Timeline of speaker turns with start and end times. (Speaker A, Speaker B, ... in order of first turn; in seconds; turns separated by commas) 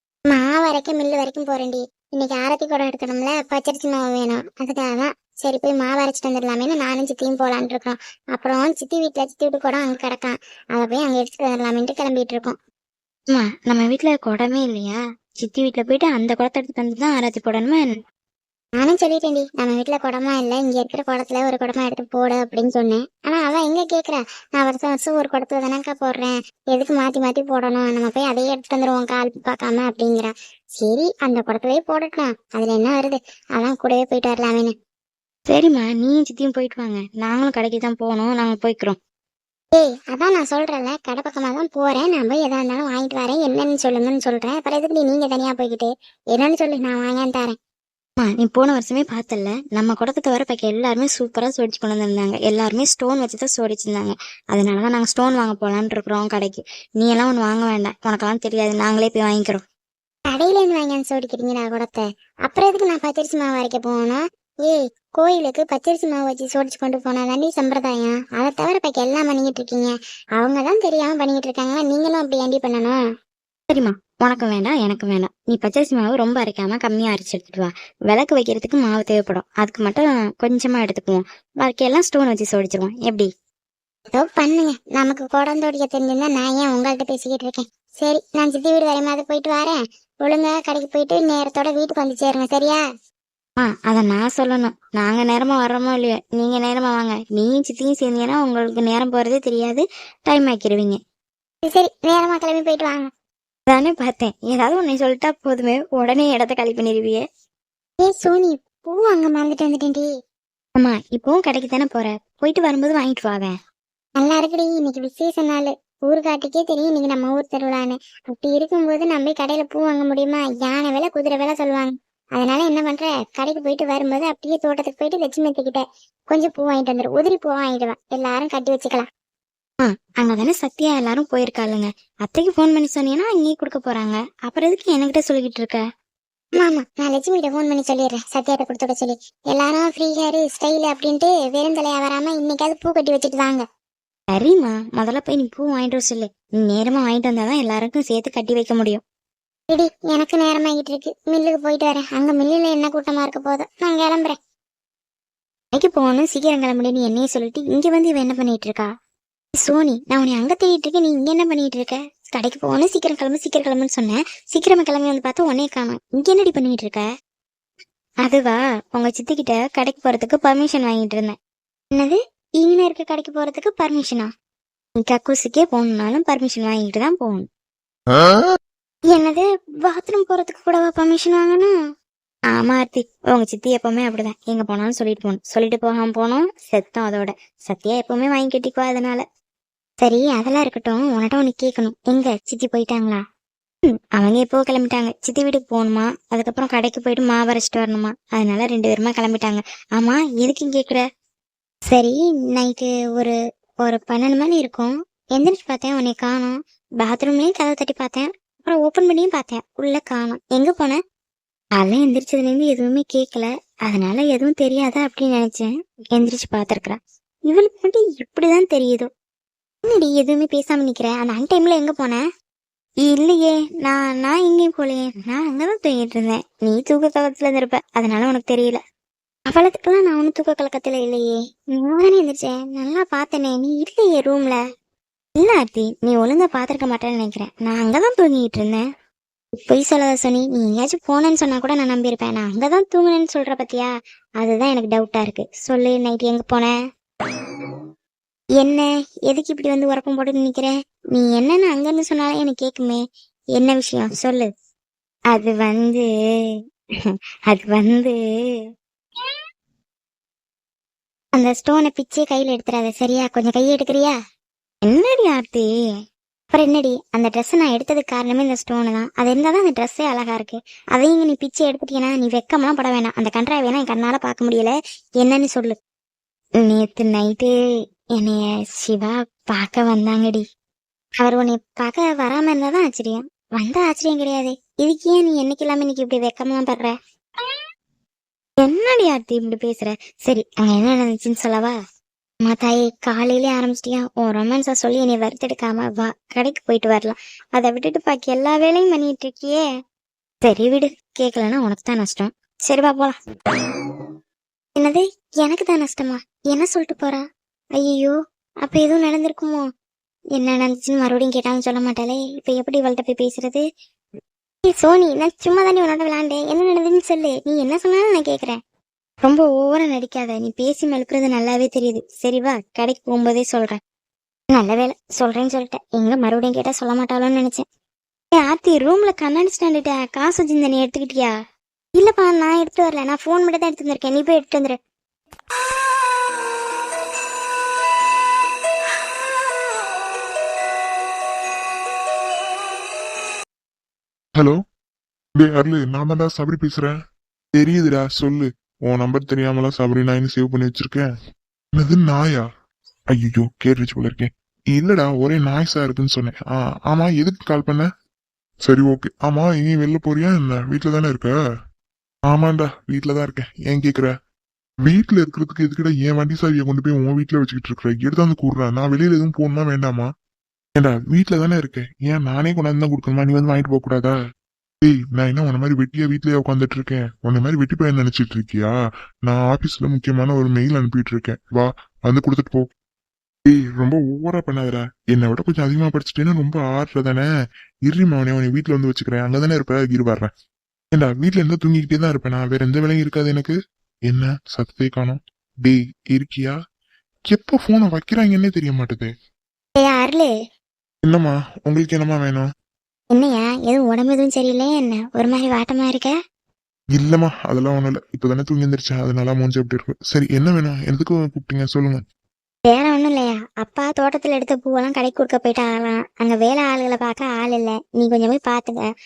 Speaker A: 0.3-12.6, Speaker B: 13.3-18.0, Speaker A: 18.8-34.8, Speaker B: 35.5-39.0, Speaker A: 39.7-47.6, Speaker B: 48.2-59.6, Speaker A: 60.3-73.0, Speaker B: 73.7-83.3, Speaker A: 84.1-92.8, Speaker B: 93.6-101.0, Speaker A: 101.7-103.1, Speaker B: 103.7-107.2, Speaker A: 108.0-110.1, Speaker B: 110.8-113.6, Speaker A: 114.2-129.1, Speaker B: 129.8-135.9, Speaker A: 136.6-143.7, Speaker B: 144.3-149.0, Speaker A: 149.7-154.4, Speaker B: 155.7-158.9, Speaker B: 159.6-167.1, Speaker B: 168.2-171.4, Speaker B: 171.9-174.3, Speaker B: 175.0-177.5, Speaker B: 179.1-181.7, Speaker B: 182.5-189.2, Speaker B: 190.0-193.2, Speaker B: 194.1-201.0, Speaker B: 201.9-211.0, Speaker B: 211.8-219.1, Speaker B: 219.8-222.2, Speaker B: 223.0-228.8, Speaker B: 229.5-234.6, Speaker B: 235.4-238.8, Speaker B: 239.6-246.8, Speaker B: 248.6-253.0, Speaker B: 253.6-254.5, Speaker B: 255.3-258.2, Speaker B: 261.4-264.1, Speaker B: 264.8-265.7, Speaker B: 266.5-275.8, Speaker B: 276.6-277.5, Speaker B: 278.1-280.4, Speaker B: 281.2-286.9, Speaker B: 288.6-291.8, Speaker B: 292.4-299.6, Speaker B: 300.4-303.2, Speaker B: 304.8-307.2, Speaker B: 307.8-309.7, Speaker B: 310.3-313.6, Speaker B: 314.6-318.6, Speaker B: 319.2-323.8, Speaker B: 324.5-327.6, Speaker B: 328.3-331.4, Speaker B: 331.9-334.8, Speaker C: 345.4-346.9, Speaker C: 347.6-351.1, Speaker C: 351.8-352.5, Speaker C: 353.1-357.9, Speaker C: 358.7-361.3, Speaker C: 362.3-364.1, Speaker C: 364.9-370.1, Speaker C: 370.8-374.1, Speaker C: 374.8-378.8, Speaker C: 379.3-382.7, Speaker C: 383.5-387.3, Speaker C: 387.9-390.3, Speaker C: 390.9-393.6, Speaker C: 394.1-396.6, Speaker C: 397.3-399.1, Speaker B: 399.8-400.3, Speaker C: 401.1-402.5, Speaker B: 403.1-406.1, Speaker C: 407.0-412.0, Speaker B: 412.7-418.9